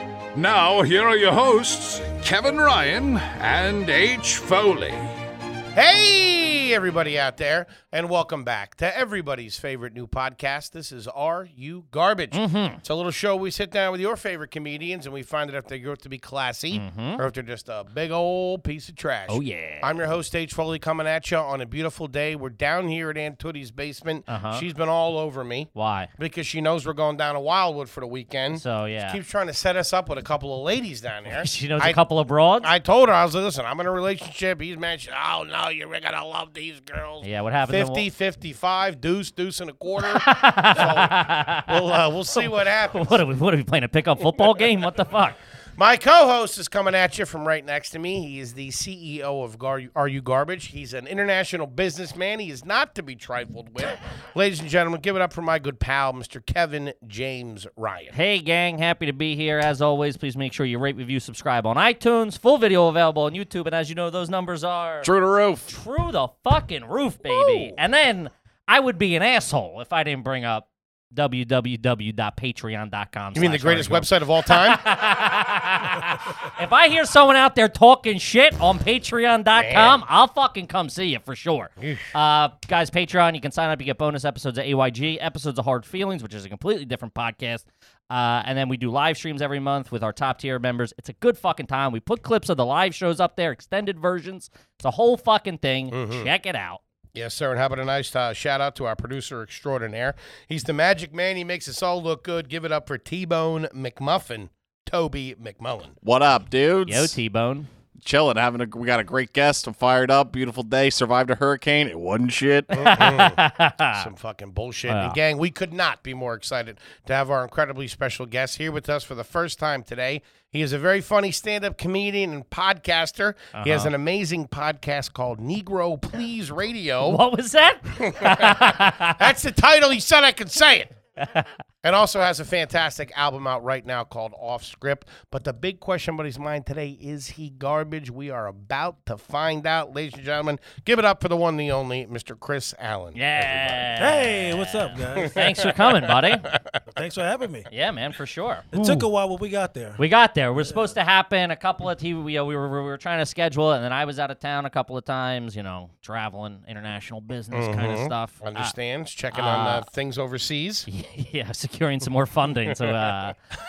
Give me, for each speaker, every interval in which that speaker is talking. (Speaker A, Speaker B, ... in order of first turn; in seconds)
Speaker A: 0.3-5.1
Speaker B: 5.8-32.0, 32.6-43.2, 45.8-58.1, 67.3-67.8, 73.3-74.8, 79.5-80.0, 81.8-82.1, 95.9-96.3, 97.2-106.0, 112.7-127.2, 127.9-130.9, 131.8-143.9, 145.2-146.8, 148.7-149.0, 157.5-160.9
Speaker C: 12.3-12.8, 16.7-17.2, 19.3-19.9, 24.3-24.6, 25.8-26.1, 28.5-29.2, 31.3-32.7, 37.2-38.1, 40.0-45.4, 58.1-65.1, 65.7-96.8, 106.9-107.7, 112.7-114.0, 114.9-115.2, 123.6-123.9, 127.0-129.2, 131.2-131.5, 143.2-146.5, 147.7-148.7, 150.0-158.7, 159.3-159.9, 160.9-163.4
Speaker D: 65.0-65.7, 106.0-107.2, 108.0-113.0
Speaker E: 144.0-145.4, 146.9-147.7, 148.7-150.0